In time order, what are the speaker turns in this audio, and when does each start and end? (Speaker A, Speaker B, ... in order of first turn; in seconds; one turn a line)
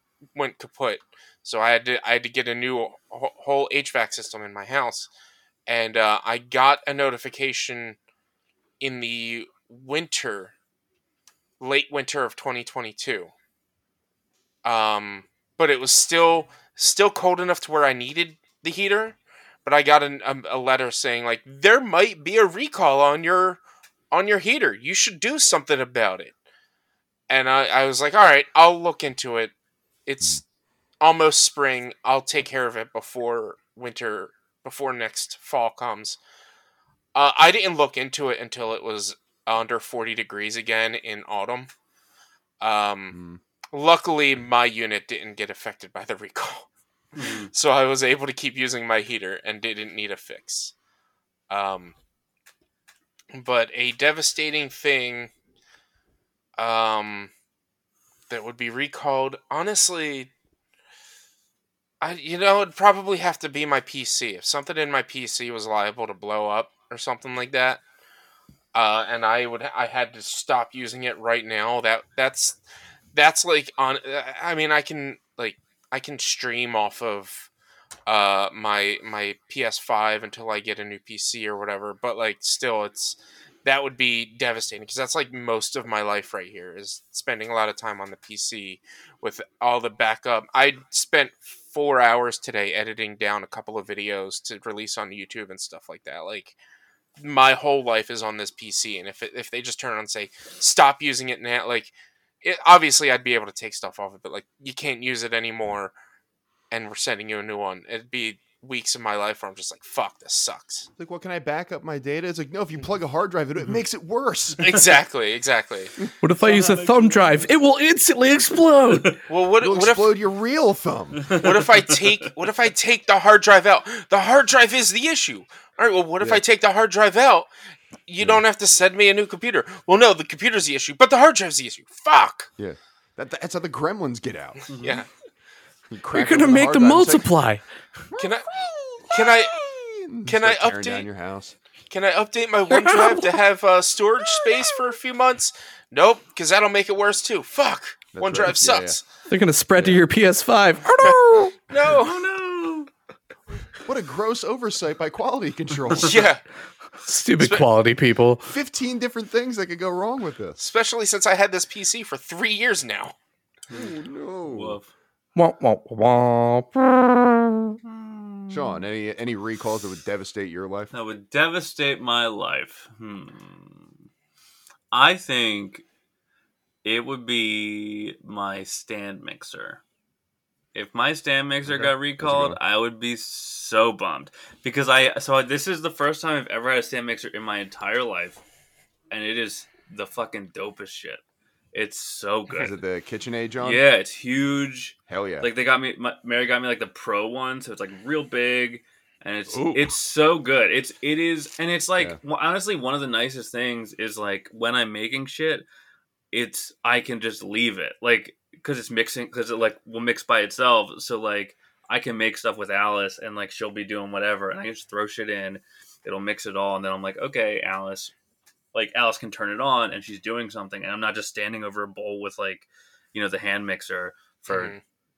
Speaker A: 0.3-5.1
Speaker A: 5.7-8.0
Speaker A: 8.8-10.5
Speaker A: 11.6-13.3
Speaker A: 14.6-23.6
Speaker A: 24.1-26.3
Speaker A: 27.3-29.5
Speaker A: 30.1-30.4
Speaker A: 31.0-36.2
Speaker A: 37.1-41.7
Speaker A: 42.6-43.1
Speaker B: 43.1-43.4
Speaker A: 43.7-46.7
Speaker C: 47.1-47.5
Speaker A: 47.2-50.7
Speaker A: 51.5-51.9
Speaker A: 53.3-55.3
Speaker A: 56.6-57.3
Speaker A: 58.3-60.3
Speaker A: 62.0-67.8
Speaker A: 68.7-72.6
Speaker A: 73.1-77.5
Speaker A: 78.1-96.5
Speaker A: 97.2-105.9
Speaker A: 106.7-110.9
Speaker B: 111.0-114.9
Speaker A: 114.6-115.9
Speaker D: 116.2-119.1
Speaker C: 116.4-117.5
Speaker C: 118.9-119.2
Speaker A: 119.3-120.1
Speaker B: 119.6-121.3
Speaker C: 121.2-121.6
Speaker A: 121.4-127.5
Speaker A: 128.1-132.5
Speaker B: 132.6-134.6
Speaker C: 134.7-135.0
Speaker A: 134.8-135.1
Speaker B: 135.9-137.3
Speaker D: 136.1-137.6
Speaker B: 138.1-141.5
Speaker A: 138.2-138.5
Speaker A: 139.0-139.7
Speaker A: 140.2-141.1
Speaker A: 141.9-149.0
Speaker D: 142.7-143.4
Speaker B: 148.1-149.0
Speaker D: 149.3-151.6
Speaker B: 149.7-150.0
Speaker A: 151.7-152.2
Speaker C: 151.8-152.9
Speaker B: 153.8-156.3
Speaker A: 156.0-156.4
Speaker D: 157.0-158.5
Speaker A: 157.4-157.7
Speaker B: 158.4-160.6
Speaker A: 160.6-163.2
Speaker B: 163.7-164.8
Speaker C: 164.4-164.9
Speaker D: 165.3-167.8
Speaker C: 167.8-168.7
Speaker B: 168.5-170.9
Speaker C: 170.9-173.9
Speaker C: 174.9-175.8
Speaker C: 176.8-179.8
Speaker C: 180.7-188.4
Speaker B: 181.6-182.6
Speaker C: 189.1-191.2
Speaker C: 191.7-192.7
Speaker B: 192.5-193.8
Speaker C: 193.6-205.6
Speaker B: 195.1-195.5
Speaker B: 199.5-199.9
Speaker C: 206.3-218.1
Speaker C: 218.7-224.7
Speaker A: 224.5-224.8